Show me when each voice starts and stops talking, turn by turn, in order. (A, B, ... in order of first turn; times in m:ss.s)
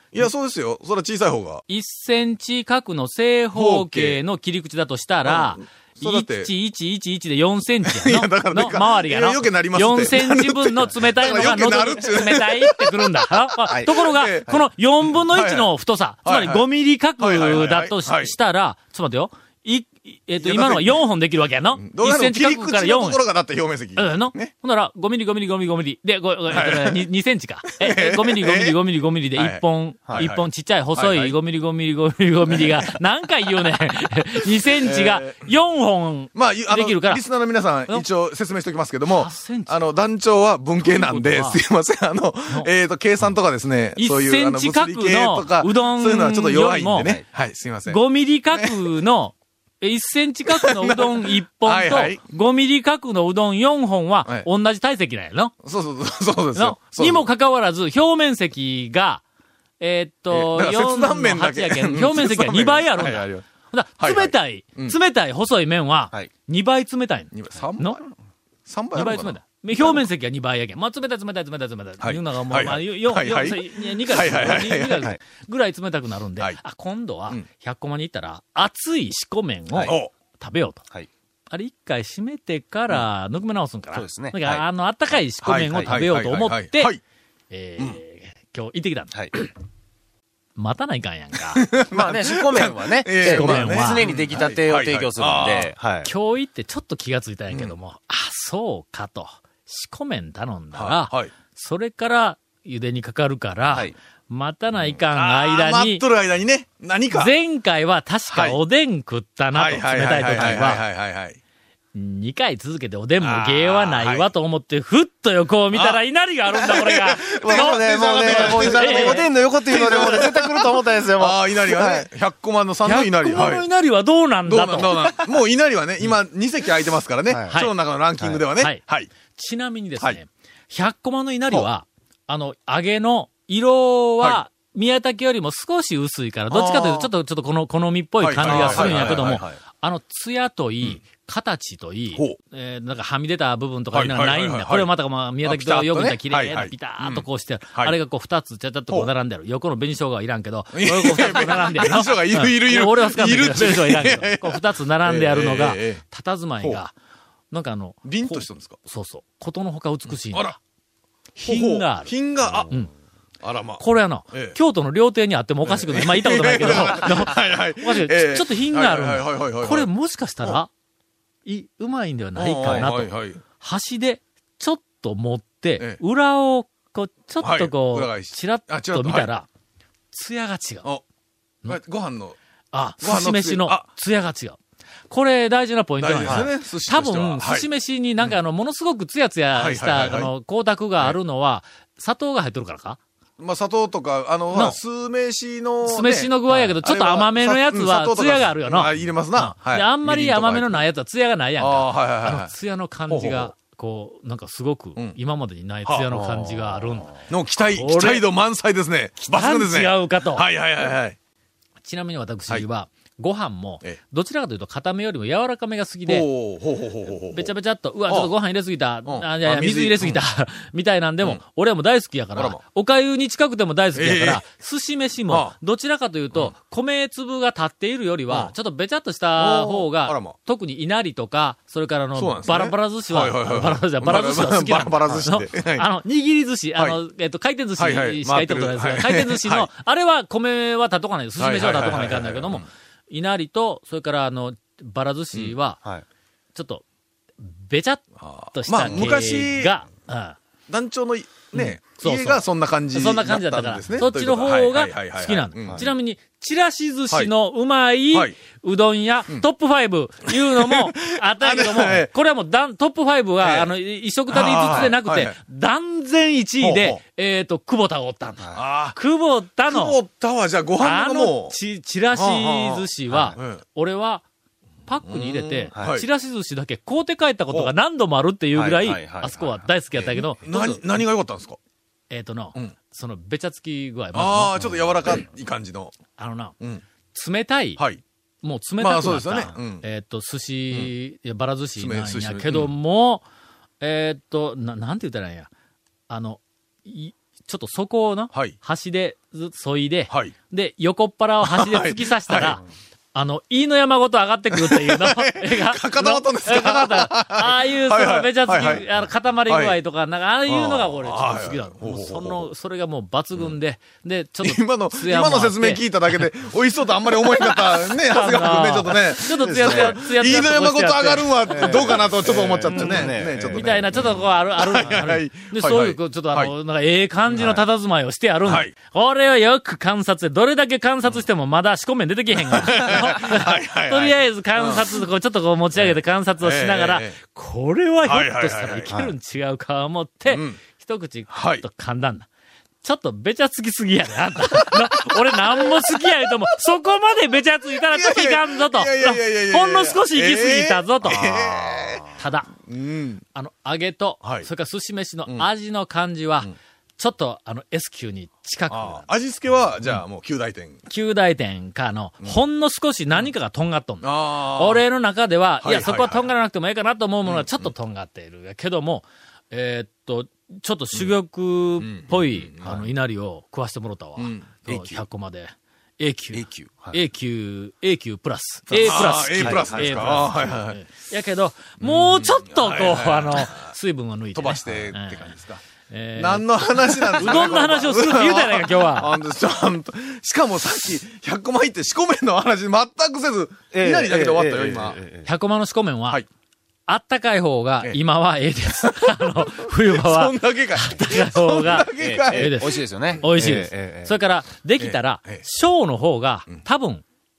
0:00.1-0:01.6 A
0:01.7-0:23.2 B
0:03.6-0:04.2 A
0:05.2-0:06.5 A
0:07.8-0:14.5 A
0:15.1-0:15.7 A
0:16.2-0:16.7 A
0:17.2-0:18.4 A
0:20.4-0:21.0 A
0:21.8-0:24.5 A
0:24.0-0:37.2 B
0:26.5-0:27.0 A
0:27.7-0:28.8 A
0:29.4-0:30.4 A
0:31.0-0:31.4 A
0:32.5-0:33.0 A
0:34.8-0:35.4 A
0:36.4-0:48.0 A
0:39.1-0:39.8 B
0:40.8-0:41.6 B
0:44.0-0:47.2 B
0:47.9-0:55.5 B
0:48.5-0:48.9 A
0:50.5-0:52.2 A
0:55.6-0:57.3 A
0:56.6-0:59.2 B
0:59.8-1:08.0 B
1:00.3-1:03.4 A
1:04.0-1:05.0 A
1:07.3-1:08.1 A
1:08.7-1:10.0 A
1:08.9-1:20.8 B
1:12.0-1:15.1 A
1:19.8-1:20.1 A
1:21.5-1:27.0 B
1:23.9-1:24.6 C
1:25.4-1:27.0 A
1:27.5-1:29.1 B
1:30.6-1:31.7 B
1:31.6-1:35.7 A
1:31.9-1:36.1 C
1:33.2-1:34.1 B
1:36.0-1:46.0 B
1:40.7-1:41.3 A
1:45.0-1:47.4 A
1:47.1-1:50.8 B
1:48.3-1:48.6 A
1:49.5-1:51.4 A
1:51.9-1:59.2 B
1:53.2-1:54.3 A
1:55.7-2:03.7 A
1:57.4-2:02.1 C
2:02.8-2:05.0 B
2:04.4-2:09.1 A
2:07.3-2:07.5 C
2:08.6-2:36.9 B
2:16.5-2:17.1 A
2:18.2-2:19.5 A
2:18.4-2:19.4 C
2:23.9-2:24.9 A
2:25.4-2:28.0 A
2:30.7-2:36.0 A
2:37.5-2:40.6 B
2:38.1-2:38.8 A
2:40.3-2:40.6 A
2:41.4-2:42.1 B
2:41.4-2:42.7 A
2:43.4-2:44.6 A
2:43.8-2:50.7 B
2:45.7-2:49.9 A
2:51.4-2:59.5 B
2:52.4-2:53.4 A
2:57.4-2:59.3 A
3:00.1-3:00.9 B
3:01.7-3:02.4 A
3:02.7-3:04.6 B
3:03.0-3:03.8 A
3:05.1-3:13.0 B
3:06.0-3:07.7 A
3:09.5-3:10.3 A
3:13.4-3:20.8 A
3:14.5-3:14.8 B
3:15.8-3:28.2 B
3:21.6-3:22.5 A
3:23.1-3:23.5 A
3:26.1-3:27.1 C
3:27.3-3:31.2 A
3:29.2-3:30.5 B
3:31.8-3:36.3 B
3:36.1-3:37.5 A
3:37.3-4:05.8 B
3:39.1-3:40.2 A
3:44.0-3:44.4 A
3:45.3-3:45.5 A
3:49.4-3:50.4 A
3:52.2-3:55.9 A
3:57.8-3:59.7 A
4:01.4-4:02.6 A
4:06.5-4:06.8 B
4:07.4-4:10.4 B
4:08.2-4:09.8 A
4:10.7-4:15.9 A
4:11.5-4:28.4 B
4:20.3-4:22.1 A
4:23.4-4:23.7 A
4:24.3-4:25.4 A
4:26.6-4:27.0 A
4:28.5-4:29.0 A
4:28.9-4:30.0 B
4:29.7-4:31.6 A
4:30.8-4:34.2 B
4:32.1-4:33.6 A
4:34.9-4:40.8 B
4:35.1-4:36.1 A
4:38.5-4:39.6 C
4:40.1-4:41.6 A
4:42.1-4:44.9 B
4:44.1-4:46.0 A
4:46.2-4:46.5 B
4:47.1-4:47.8 B
4:48.4-4:53.2 B
4:48.8-4:49.8 A
4:51.8-4:52.7 A
4:53.8-4:55.5 B
4:56.1-5:02.6 B
5:01.4-5:02.6 A
5:03.1-5:15.8 B
5:04.5-5:08.9 A
5:09.5-5:09.8 A
5:10.5-5:12.5 A
5:14.4-5:26.5 A
5:17.2-5:42.3 B
5:19.4-5:20.0 C
5:21.5-5:23.7 C
5:27.3-5:27.6 A
5:28.5-5:28.7 A
5:32.4-5:34.9 A
5:35.8-5:37.2 A
5:38.0-5:39.0 A
5:40.3-5:40.6 A
5:41.3-5:41.6 A
5:42.8-5:51.6 B
5:44.5-5:45.1 A
5:47.8-5:53.2 A
5:51.4-5:52.0 C
5:52.1-5:52.5 B
5:53.4-5:59.1 B
5:54.2-5:54.5 A
5:58.7-6:00.8 A
6:00.9-6:25.4 B
6:04.0-6:04.8 A
6:05.6-6:06.2 A
6:07.2-6:07.7 A
6:11.8-6:12.9 A
6:14.2-6:14.8 A
6:16.3-6:17.0 C
6:18.7-6:20.8 A
6:19.4-6:20.1 C
6:21.8-6:23.7 A
6:24.4-6:25.6 A
6:25.9-6:29.2 B
6:26.2-6:35.0 A
6:33.7-6:35.3 C
6:35.2-6:36.2 B
6:36.9-6:47.0 B
6:38.8-6:42.6 A
6:41.9-6:44.1 C
6:44.8-6:45.4 A